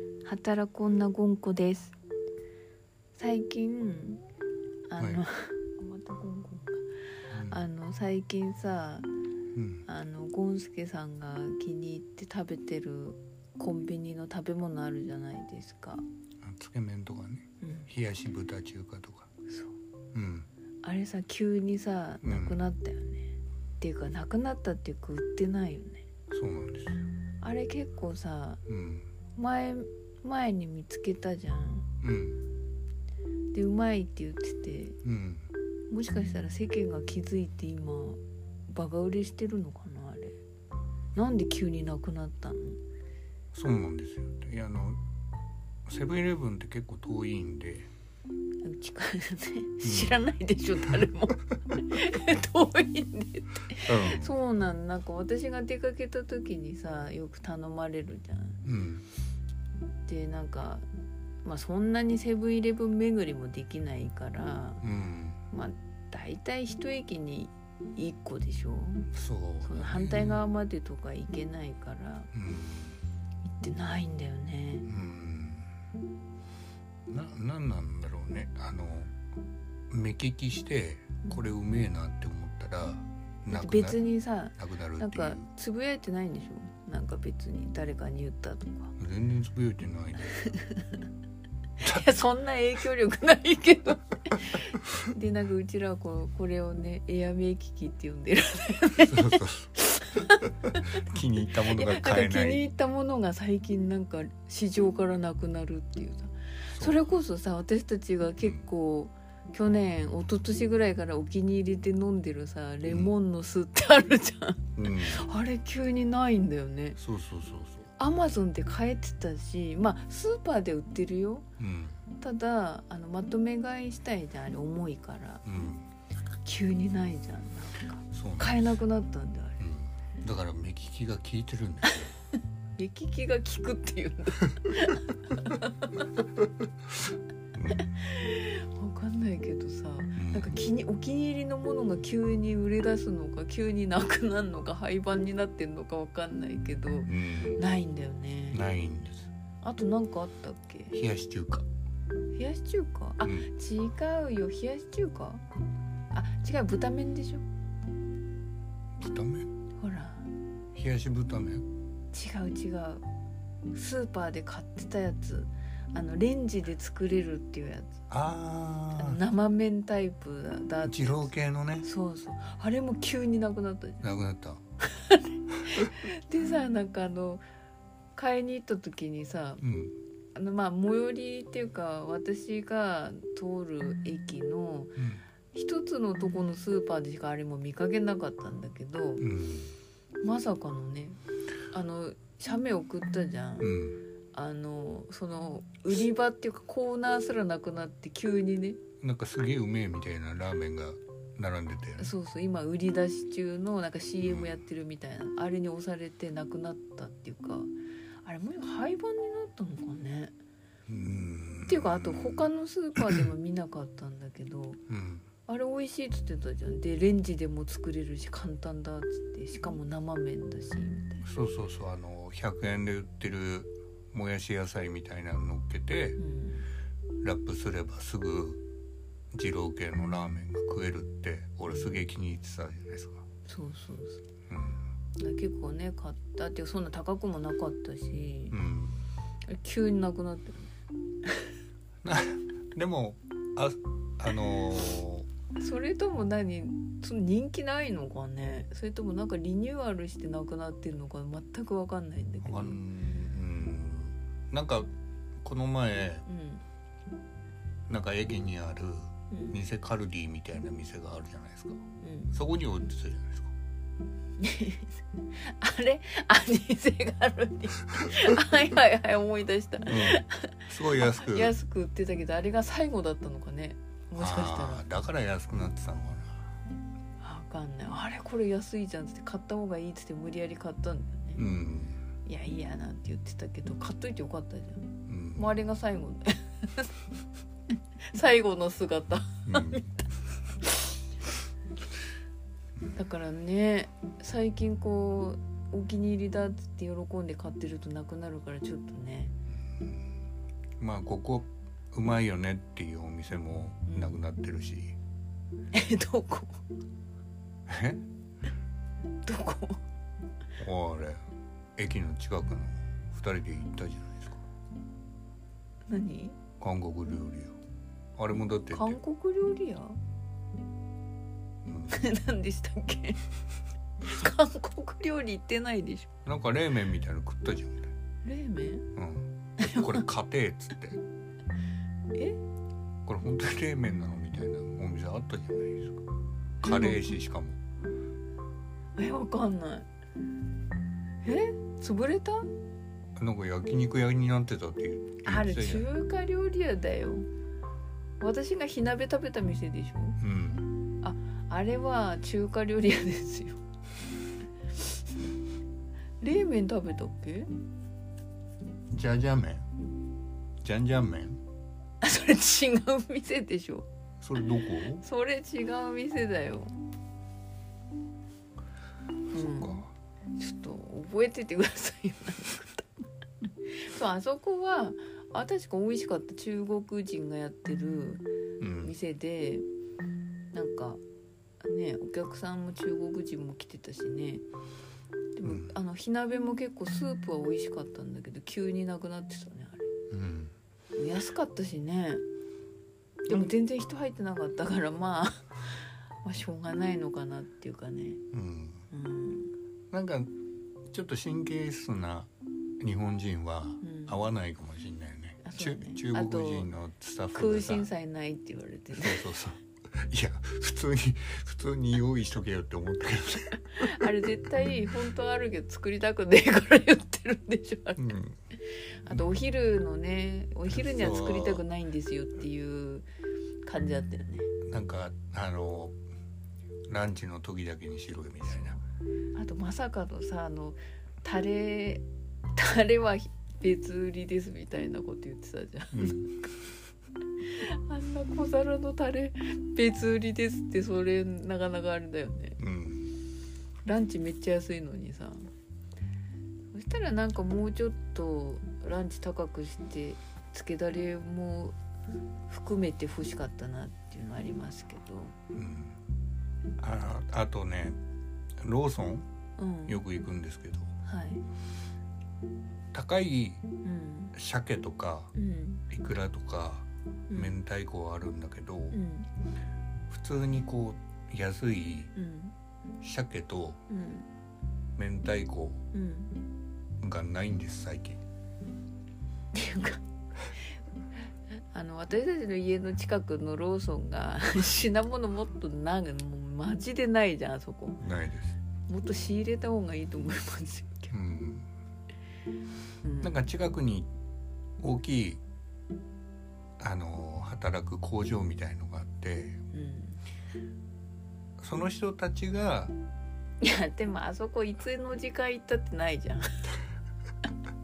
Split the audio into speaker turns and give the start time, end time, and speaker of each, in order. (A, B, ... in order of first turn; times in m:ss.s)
0:00.2-0:01.9 A
0:03.2-0:04.2 A
0:04.9-0:06.8 A
0:05.0-0:05.2 B
0:07.3-0:07.6 B
0:07.5-0:09.1 A
0:09.5-0:09.8 B
0:09.9-0:16.0 A
0:16.4-0:19.3 B
0:17.6-0:17.9 A
0:19.5-0:19.7 A
0:20.1-0:20.5 B
0:20.8-0:26.0 A
0:22.2-0:22.6 B
0:26.3-0:27.0 B
0:27.4-0:28.6 A
0:28.7-0:29.1 B
0:29.4-0:31.9 A
0:32.0-0:32.4 B
0:33.5-0:35.0 A
0:35.0-0:35.5 B
0:35.9-0:40.4 A
0:41.1-0:42.8 A
0:43.5-0:45.0 B
0:45.8-0:47.9 B
0:48.6-0:58.6 A
0:49.8-0:50.2 B
0:53.8-0:54.4 B
0:58.6-0:59.0 B
1:00.0-1:00.8 A
1:01.4-1:04.8 A
1:04.8-1:05.4 B
1:05.5-1:09.1 A
1:09.1-1:10.4 B
1:09.6-1:12.3 A
1:12.3-1:13.0 B
1:13.4-1:14.8 A
1:14.9-1:15.7 B
1:17.1-1:19.2 B
1:19.9-1:24.0 B
1:23.5-1:28.9 A
1:24.6-1:25.5 B
1:29.0-1:30.3 B
1:30.2-1:31.0 A
1:31.8-1:41.0 A
1:39.0-1:39.8 B
1:40.7-1:42.6 B
1:41.6-1:57.0 A
1:46.7-1:47.1 B
1:52.8-1:53.1 B
1:54.8-1:55.3 B
1:57.0-1:57.9 B
1:58.0-2:01.4 A
2:01.6-2:02.0 B
2:02.2-2:05.4 A
2:05.4-2:05.9 B
2:06.4-2:09.6 A
2:08.1-2:08.7 B
2:09.6-2:12.1 B
2:12.8-2:16.1 A
2:17.5-2:17.9 B
2:17.7-2:28.6 A
2:20.2-2:20.6 B
2:27.1-2:27.6 B
2:28.5-2:29.3 B
2:29.6-2:31.0 A
2:30.9-2:31.7 B
2:32.3-2:35.4 A
2:33.2-2:33.5 B
2:36.1-2:37.4 A
2:39.0-2:39.5 B
2:39.8-2:40.3 A
2:40.7-2:41.7 B
2:42.1-2:43.0 A
2:43.7-2:48.0 A
2:48.1-2:49.2 B
2:48.9-2:51.3 A
2:50.8-2:51.9 B
2:51.8-2:54.1 A
2:54.0-2:54.6 B
2:54.8-2:57.4 A
2:58.2-2:59.6 A
2:59.6-3:00.0 B
3:00.3-3:05.0 A
3:05.0-3:05.2 B
3:05.5-3:09.2 A
3:09.2-3:09.7 B
3:10.2-3:11.2 A
3:11.7-3:13.7 A
3:13.6-3:14.0 B
3:14.3-3:18.8 A
3:19.0-3:22.1 B
3:22.0-3:27.7 A
3:24.2-3:24.6 B
3:28.2-3:30.3 A
3:30.9-3:32.5 B
3:31.7-3:34.8 A
3:34.9-3:35.2 B
3:35.5-3:41.2 A
3:41.2-3:46.2 B
3:46.2-3:46.6 A
3:47.2-3:48.6 B
3:49.3-3:53.2 B
3:53.5-3:54.2 A
3:54.5-3:54.8 B
3:55.2-3:58.6 A
3:58.5-3:59.1 B
3:59.5-4:00.7 A
4:02.0-4:05.3 B
4:05.6-4:12.8 A
4:12.4-4:14.9 B
4:15.4-4:16.2 B
4:16.3-4:16.6 A
4:17.9-4:23.5 B
4:19.3-4:19.6 A
4:22.0-4:22.3 A
4:24.4-4:34.8 A
4:29.8-4:31.5 B
4:34.2-4:36.5 B
4:37.2-4:41.4 A
4:41.3-4:42.0 B
4:42.2-4:47.0 A
4:45.1-4:45.6 B
4:48.0-4:49.9 A
4:49.4-4:49.9 B
4:52.9-4:59.3 A
4:59.7-5:00.0 B
5:00.8-5:05.0 B
5:03.9-5:04.2 A
5:05.7-5:06.6 A
5:07.7-5:08.0 B
5:09.2-5:09.8 A
5:10.6-5:11.2 B
5:11.8-5:14.4 B
5:15.9-5:16.4 A
5:16.6-5:17.6 B
5:18.2-5:19.0 B
5:18.7-5:20.0 A
5:21.6-5:22.0 B
5:21.9-5:23.2 A
5:24.0-5:26.1 A
5:26.2-5:27.9 B
5:28.2-5:28.9 A
5:29.0-5:31.0 B
5:29.6-5:30.0 A
5:32.1-5:32.4 A
5:33.0-5:36.0 B
5:36.6-5:37.2 A
5:36.6-5:37.6 B
5:39.0-5:39.8 A
5:41.2-5:42.5 A
5:43.2-5:45.9 B
5:45.2-5:47.3 A
5:48.2-5:50.2 A
5:50.2-5:50.8 B
5:51.0-5:53.6 A
5:56.2-5:57.5 A
5:58.9-5:59.7 B
6:00.6-6:01.4 B
6:02.0-6:03.8 A
6:04.2-6:05.0 B
6:04.8-6:06.8 A
6:09.3-6:09.9 B
6:09.3-6:09.8 A
6:10.4-6:18.3 A
6:18.6-6:18.9 B
6:18.8-6:19.6 A
6:20.5-6:21.0 A
6:21.6-6:24.4 A
6:25.4-6:29.9 A
6:25.4-6:25.7 B
6:30.1-6:30.5 B
6:31.0-6:32.2 A
6:33.3-6:38.2 A
6:38.3-6:38.8 B
6:38.9-6:39.5 A
6:39.9-6:40.3 B
6:40.9-6:47.9 B
6:43.8-6:44.2 A
6:45.4-6:46.7 A
6:47.3-6:49.3 A
6:48.9-6:54.0 B
6:53.6-6:58.1 A
6:58.0-6:58.4 B
6:58.6-7:03.1 A
7:00.7-7:01.6 B
7:03.6-7:04.5 A
7:04.6-7:06.0 B
7:06.9-7:08.8 B
7:09.3-7:16.5 A
7:15.9-7:16.3 B
7:17.4-7:22.6 A
7:22.6-7:23.1 B
7:23.8-7:25.5 A
7:26.7-7:31.8 A
7:32.5-7:35.3 A
7:35.5-7:36.0 B
7:36.8-7:38.0 B
7:38.6-7:39.3 B
7:39.6-7:40.0 A
7:39.9-7:40.9 B
7:41.0-7:41.4 A
7:42.9-7:43.6 B
7:43.8-7:44.4 A
7:44.3-7:45.3 B
7:45.3-7:45.8 A
7:45.9-7:49.0 B
7:47.3-7:47.5 A
7:48.9-7:49.3 A
7:50.1-7:52.1 B
7:52.1-7:52.5 A
7:53.0-7:53.8 B
7:53.9-7:54.3 A
7:55.0-7:55.8 B
7:55.9-7:56.4 A
7:57.0-7:58.2 B
7:59.5-8:00.0 A
8:01.7-8:08.0 A
8:08.0-8:08.6 B
8:08.9-8:11.1 A
8:11.1-8:11.7 B
8:13.0-8:13.4 A
8:13.2-8:14.1 B
8:14.8-8:15.4 B
8:16.8-8:19.6 B
8:19.7-8:20.2 A
8:21.6-8:22.9 B
8:23.6-8:26.8 A